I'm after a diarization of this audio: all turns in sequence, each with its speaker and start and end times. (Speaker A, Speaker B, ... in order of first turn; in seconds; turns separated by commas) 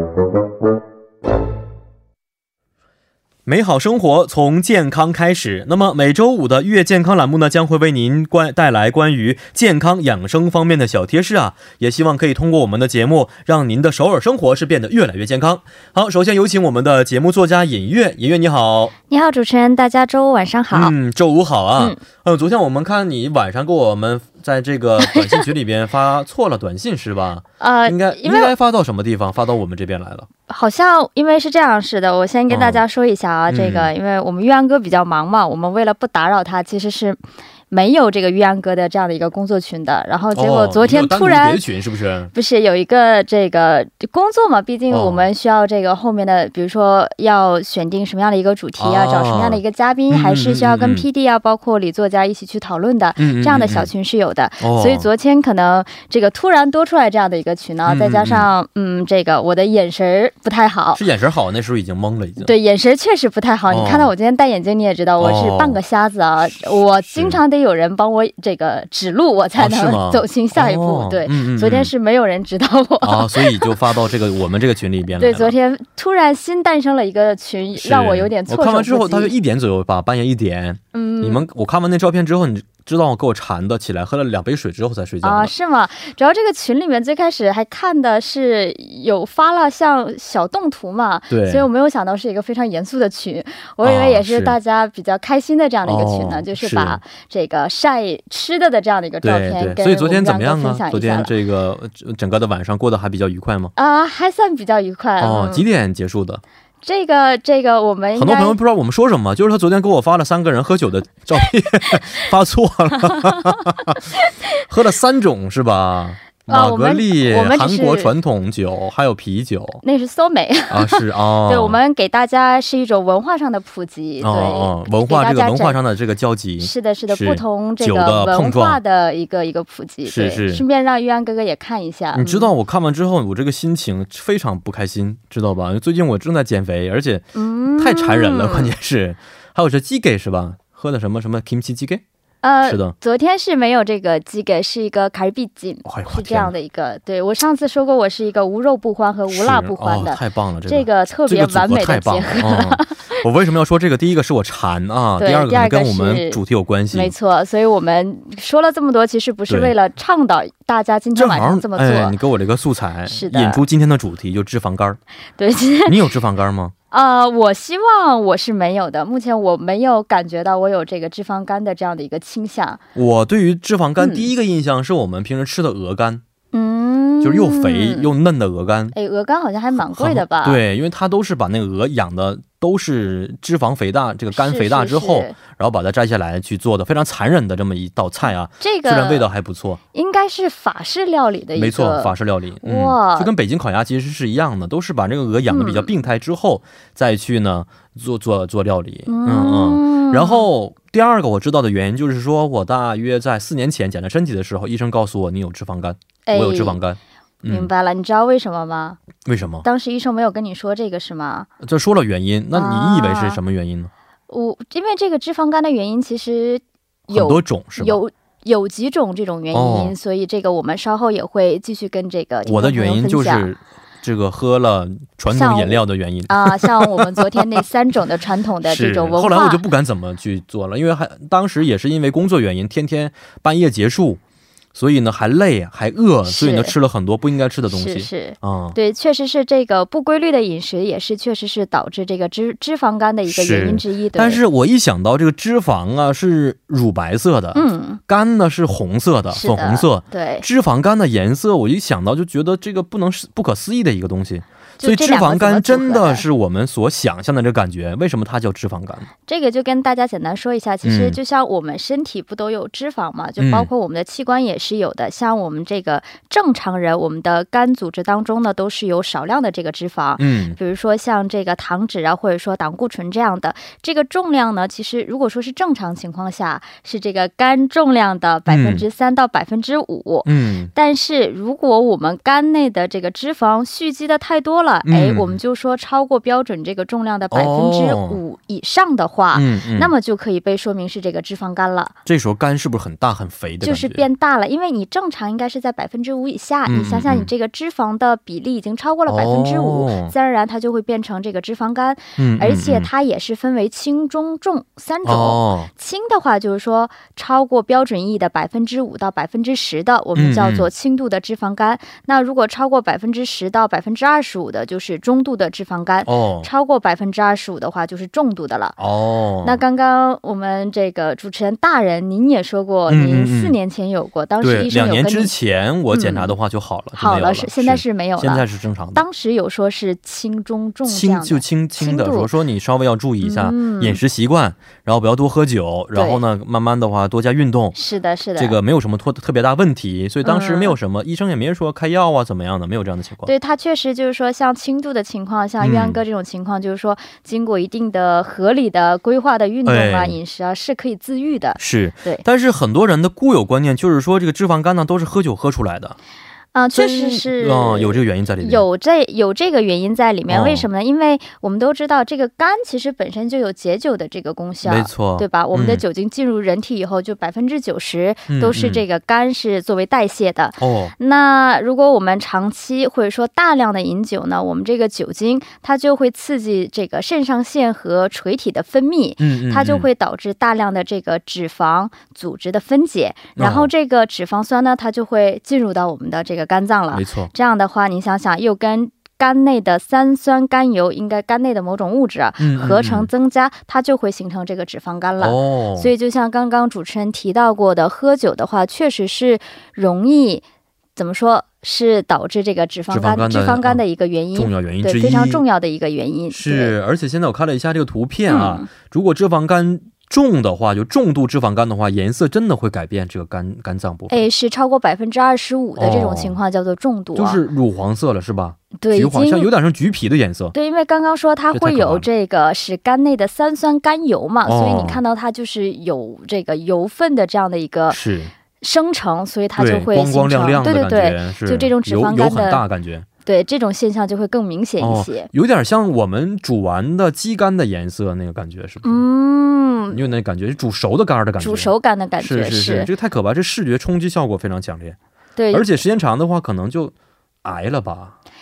Speaker A: 3.5-18.9, Speaker B: 19.1-20.9, Speaker A: 20.7-30.3, Speaker B: 25.0-25.5, Speaker B: 27.6-28.5, Speaker B: 30.5-37.2, Speaker A: 32.5-32.8, Speaker A: 33.5-33.9, Speaker B: 37.7-41.6, Speaker A: 40.3-42.3, Speaker B: 42.3-61.0, Speaker A: 44.9-45.3, Speaker A: 48.8-51.0, Speaker A: 53.2-53.9, Speaker A: 54.6-55.1, Speaker A: 57.9-58.5, Speaker A: 60.9-62.5, Speaker B: 62.4-73.7, Speaker A: 63.7-64.1, Speaker A: 65.2-65.8, Speaker A: 67.1-67.4, Speaker A: 69.6-71.9, Speaker A: 73.0-75.5, Speaker B: 75.2-79.3, Speaker A: 77.8-85.5, Speaker B: 80.9-81.5, Speaker B: 85.2-101.3, Speaker A: 91.3-91.7, Speaker A: 93.8-94.5, Speaker A: 95.8-97.0, Speaker A: 99.2-103.7, Speaker B: 103.8-105.6, Speaker A: 105.2-106.4, Speaker B: 106.8-108.6, Speaker A: 108.2-114.2, Speaker B: 113.1-113.5, Speaker B: 114.2-114.6, Speaker A: 114.7-119.8, Speaker B: 116.5-118.1, Speaker B: 119.8-125.8, Speaker A: 120.7-121.8, Speaker A: 124.2-128.8, Speaker B: 126.6-132.5, Speaker A: 130.1-130.6, Speaker A: 132.1-137.2, Speaker B: 137.3-138.7, Speaker A: 137.8-142.0, Speaker B: 142.4-153.2, Speaker A: 142.6-142.9, Speaker A: 145.8-146.5, Speaker A: 149.3-157.1, Speaker B: 155.2-156.4, Speaker B: 156.9-162.2, Speaker A: 159.5-159.7, Speaker A: 161.1-165.0, Speaker B: 163.1-163.6, Speaker B: 165.4-166.0, Speaker A: 165.8-166.7, Speaker B: 166.9-172.8, Speaker A: 172.9-176.2, Speaker B: 174.0-174.3, Speaker B: 176.5-178.1, Speaker A: 177.2-178.9, Speaker B: 178.9-180.6, Speaker A: 179.8-189.8, Speaker B: 184.3-185.4, Speaker B: 188.6-189.3, Speaker B: 189.9-193.3, Speaker A: 191.6-207.7, Speaker B: 195.5-195.9, Speaker B: 199.1-200.5, Speaker B: 206.2-206.8, Speaker B: 207.4-209.0, Speaker A: 209.2-209.6, Speaker B: 209.6-211.5, Speaker A: 211.6-213.9, Speaker B: 212.5-213.4, Speaker B: 214.3-223.5, Speaker A: 217.1-218.0, Speaker A: 219.5-219.9, Speaker A: 222.4-227.4, Speaker B: 225.3-229.6, Speaker A: 228.6-234.2, Speaker A: 234.7-238.8, Speaker B: 236.2-236.7, Speaker B: 237.7-244.4, Speaker A: 243.3-259.1, Speaker B: 247.5-248.0, Speaker B: 249.3-250.4, Speaker B: 254.8-256.2, Speaker B: 259.3-291.9, Speaker A: 260.8-261.2, Speaker A: 263.4-263.7, Speaker A: 270.2-270.6, Speaker A: 278.5-278.8, Speaker A: 280.2-280.7, Speaker A: 284.8-285.4, Speaker A: 287.3-288.2, Speaker A: 289.3-289.9, Speaker A: 292.1-294.0, Speaker B: 293.6-318.8, Speaker A: 296.6-297.3, Speaker A: 299.1-300.1, Speaker A: 302.2-302.9, Speaker A: 305.0-305.7, Speaker A: 310.1-310.7, Speaker A: 316.1-316.5, Speaker A: 318.8-319.6, Speaker B: 319.4-325.3, Speaker A: 322.9-323.6, Speaker A: 324.4-329.0, Speaker B: 325.9-326.3, Speaker B: 326.9-332.3, Speaker A: 330.9-337.8, Speaker B: 333.2-334.0, Speaker B: 335.9-336.2, Speaker B: 337.7-338.6, Speaker A: 338.4-343.3, Speaker B: 340.2-340.8, Speaker B: 343.2-352.2, Speaker A: 345.6-346.0, Speaker A: 349.6-350.2, Speaker A: 351.6-355.9, Speaker B: 356.5-400.4, Speaker A: 356.7-358.6, Speaker A: 360.3-360.7, Speaker A: 364.6-365.8, Speaker A: 368.3-368.8, Speaker A: 370.6-370.9, Speaker A: 379.2-379.9, Speaker A: 383.4-383.7, Speaker A: 386.9-387.3, Speaker A: 392.4-393.1, Speaker A: 395.2-395.9, Speaker B: 400.9-406.7, Speaker A: 402.9-403.8, Speaker A: 404.3-405.4, Speaker A: 406.3-414.2, Speaker B: 408.3-408.7, Speaker B: 414.1-417.4, Speaker A: 415.8-416.4, Speaker A: 417.1-420.5, Speaker B: 418.8-419.5, Speaker B: 420.5-428.0, Speaker A: 421.5-422.1, Speaker A: 424.4-425.0, Speaker A: 427.9-428.3, Speaker B: 428.6-432.6, Speaker A: 429.6-433.1, Speaker B: 433.2-435.3, Speaker A: 434.8-439.0, Speaker B: 438.8-440.0, Speaker A: 439.9-445.0, Speaker B: 441.4-442.9, Speaker B: 445.4-445.8, Speaker A: 445.5-448.1